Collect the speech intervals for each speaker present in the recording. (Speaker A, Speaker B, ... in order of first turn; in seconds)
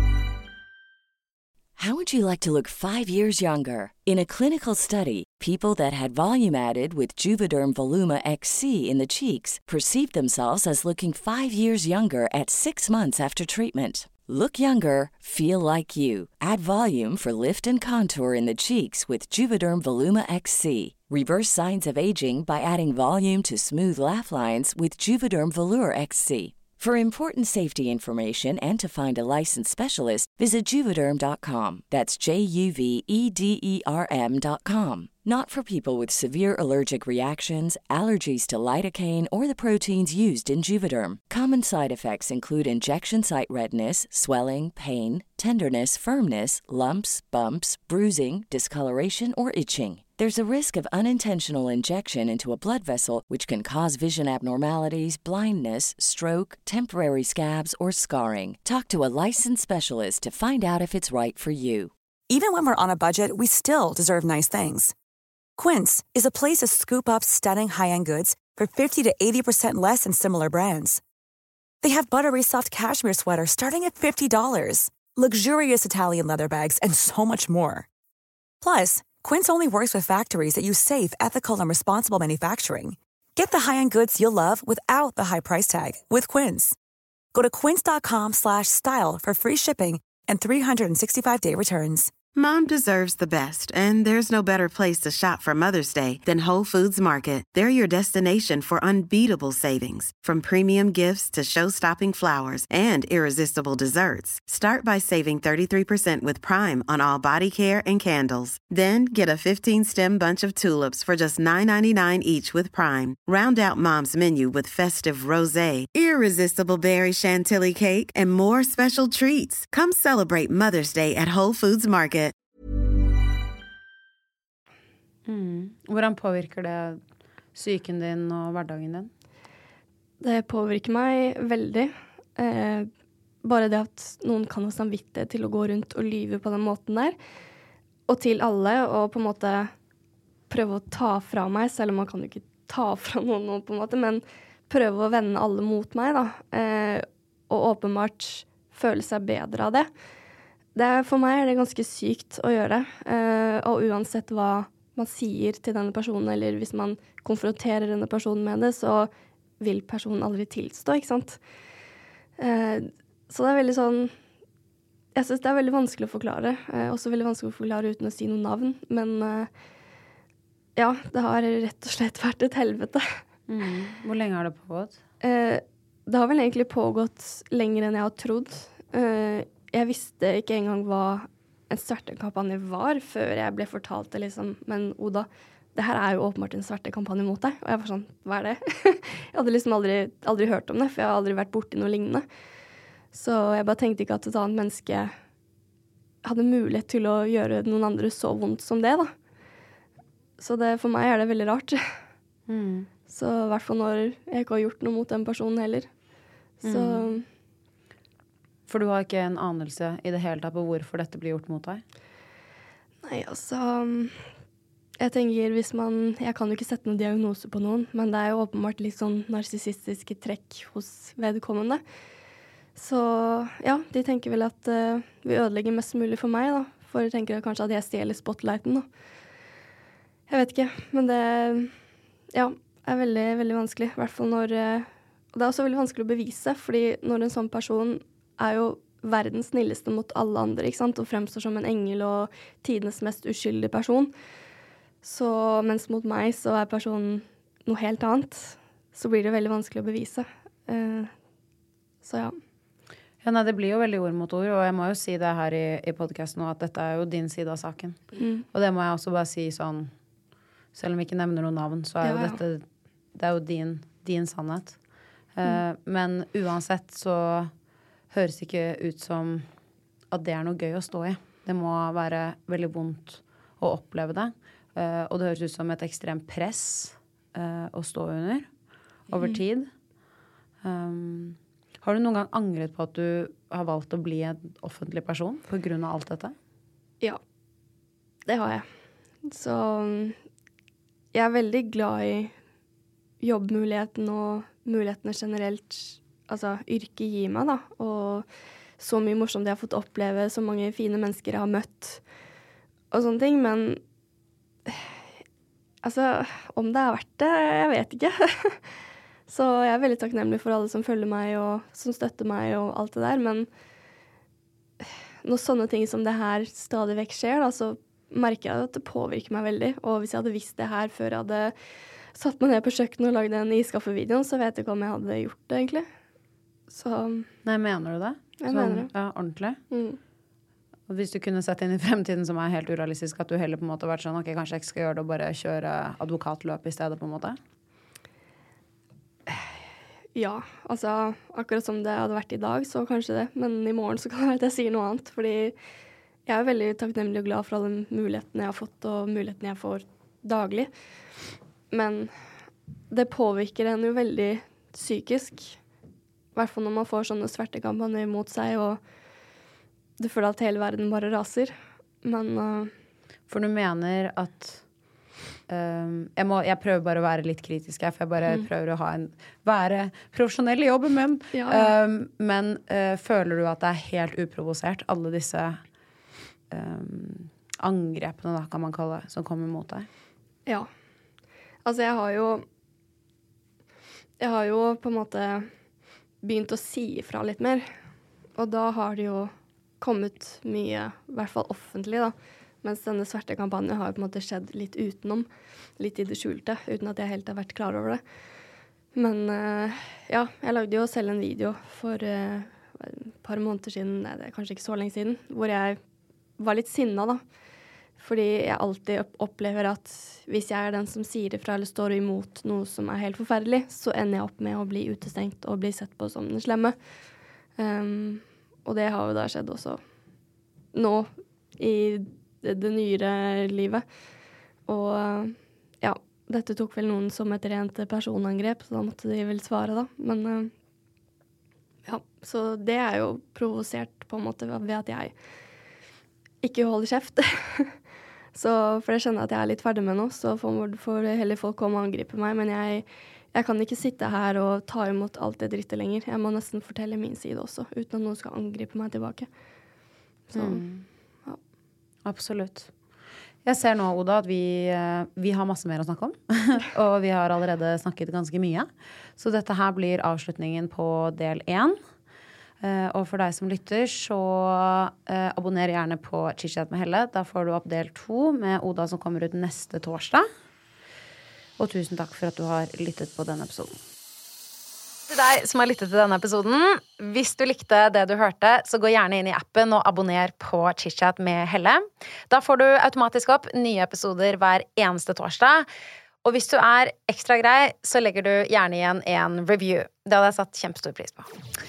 Speaker A: 1.8-61.9
Speaker B: 62.3-64.9, 65.6-71.0, 71.8-77.9, 78.6-86.8, 87.3-92.1
Speaker C: 92.3-122.3
Speaker D: 125.3-127.0, 127.5-129.1, 173.5-175.0, 202.5-202.9, 206.6-207.1, 208.7-211.8, 253.2-259.9, 260.7-264.8, 265.4-267.5, 268.1-269.5, 270.1-278.5, 279.1-279.7, 280.6-286.4, 327.4-329.6, 330.9-337.4, 363.3-364.6, 365.5-375.6, 376.5-379.9, 450.4-450.9, 452.1-452.7, 453.4-461.8, 462.6-470.3, 471.6-473.8, 475.1-485.7, 486.2-491.3
Speaker E: 130.2-132.9, 133.4-137.2, 138.1-139.7, 140.5-149.9, 150.8-161.4, 162.4-164.1, 165.2-169.5, 170.8-173.2, 175.2-192.3, 193.1-195.2, 196.2-199.1, 200.4-202.0, 203.1-205.9, 206.6-207.2, 213.0-214.2, 215.0-221.8, 222.8-228.9, 230.3-231.7, 232.3-244.1, 245.0-251.1, 252.0-252.4, 258.1-258.4, 262.0-262.4, 288.3-288.7, 289.2-290.2, 291.1-292.3, 293.2-298.3, 298.8-302.0, 302.9-303.8, 304.7-304.9, 305.8-308.6, 309.3-313.5, 315.2-321.6, 322.1-325.9, 326.7-327.3, 328.4-328.9, 329.7-330.0, 340.1-345.6, 346.3-350.7, 351.7-352.1, 352.9-355.6, 356.4-358.8, 360.0-362.7, 371.3-371.8, 381.6-382.4, 384.2-385.5, 386.2-387.7, 388.4-398.0, 398.9-405.8, 406.4-407.2, 408.0-416.8, 417.6-419.8, 420.7-423.9, 424.7-430.5, 431.9-435.1, 436.4-437.8, 438.3-449.3, 450.3-450.6